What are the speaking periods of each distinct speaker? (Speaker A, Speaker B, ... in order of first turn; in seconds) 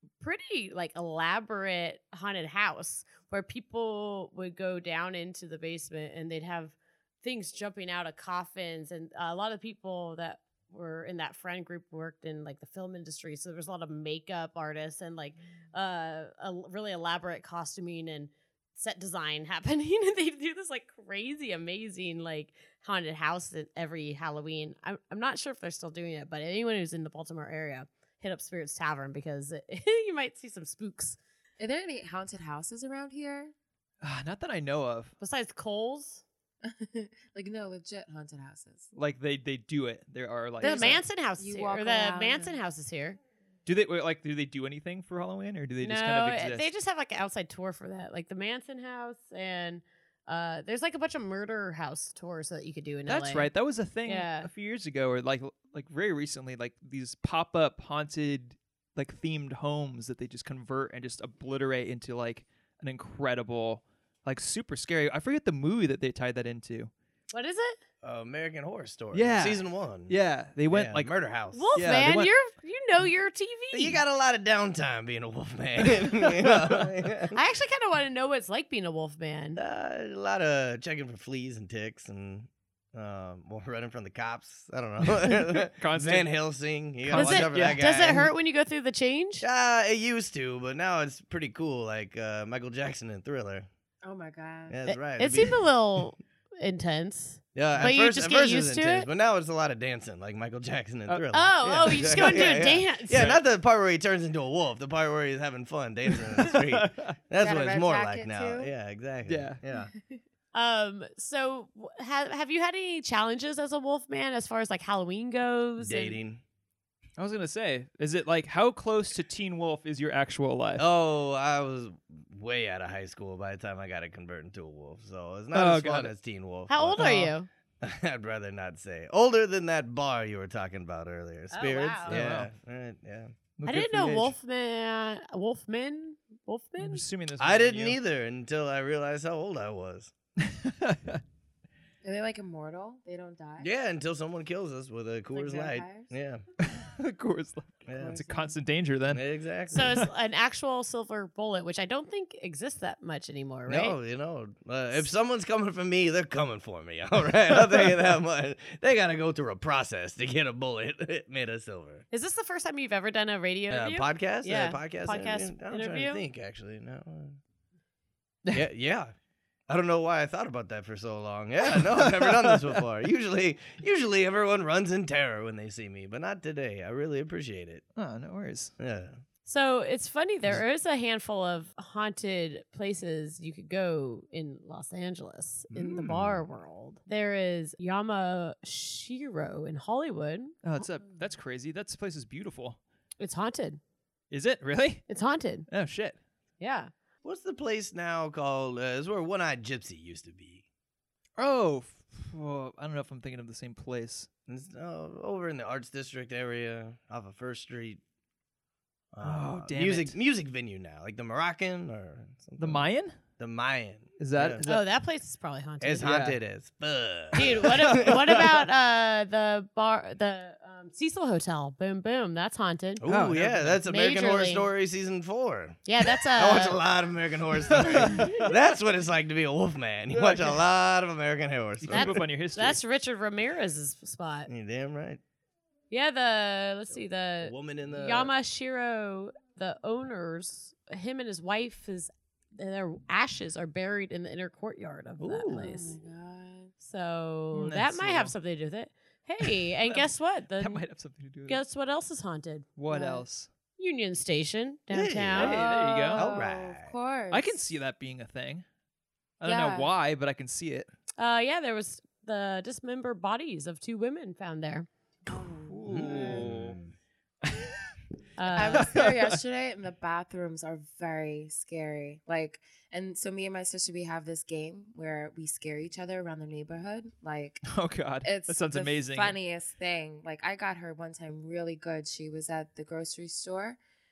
Speaker A: 0.2-31.2, 35.2-36.2, 40.6-43.2, 45.8-53.5, 54.1-54.5, 67.3-67.8, 71.5-74.0, 77.3-79.6, 87.2-89.5, 94.9-99.1, 101.3-103.4, 110.5-116.2, 126.7-127.5, 131.5-132.2, 133.7-137.1, 149.7-154.0, 162.1-166.2, 179.5-190.9, 193.2-193.8, 195.1-195.7, 196.6-196.9, 214.6-216.1, 217.3-223.0, 223.9-224.7, 225.9-226.8, 231.9-234.5, 235.9-246.0, 246.8-250.8, 251.5-252.7, 253.8-255.6, 261.2-264.9, 268.4-268.9
Speaker B: 31.6-33.5, 36.6-38.9, 40.6-42.6, 94.0-94.8, 107.4-108.7, 142.0-143.7, 145.3-146.1, 148.0-148.6, 245.5-246.7, 252.9-253.2, 255.4-257.6, 259.4-259.9, 265.3-266.5, 268.5-277.7, 278.2-283.8
Speaker C: 34.0-35.1, 38.9-41.0, 43.7-46.7, 53.1-66.9, 69.1-71.1, 71.8-72.3, 76.2-76.9, 85.7-86.3, 87.0-88.2, 106.4-107.2, 109.3-109.6, 117.2-120.8, 125.5-126.1, 127.0-127.3, 132.1-132.5, 133.6-134.3, 136.8-138.0, 140.4-141.2, 146.6-149.2, 171.8-172.8, 178.0-178.7, 190.6-192.8, 194.3-195.1, 195.7-196.2, 201.4-204.3, 209.2-210.2, 212.6-213.2, 214.2-214.8, 216.0-216.4, 217.6-218.2, 223.1-223.8, 227.7-228.5, 230.1-230.6, 231.8-232.8, 247.5-248.3, 249.4-250.1, 250.6-251.6, 252.8-253.5, 255.4-256.3, 257.3-258.6, 259.4-260.9, 265.6-266.8, 267.5-267.9, 268.5-269.4, 277.7-279.4
Speaker D: 68.0-70.2, 70.7-71.7, 73.7-77.4, 79.6-88.3, 89.4-93.7, 94.7-95.6, 97.5-109.9, 115.8-116.4, 120.8-127.2, 127.8-133.3, 137.4-140.1, 143.6-146.4, 147.9-148.2, 149.1-150.0, 153.7-162.1, 163.7-167.4, 168.5-169.1, 169.7-177.8, 178.8-179.2, 185.7-186.4, 197.2-200.6, 204.5-208.0, 209.1-212.8, 213.4-214.6, 215.8-218.7, 223.0-232.2, 234.5-235.2, 237.4-238.3, 245.2-245.8, 254.9-255.6, 256.1-256.9, 265.9-266.9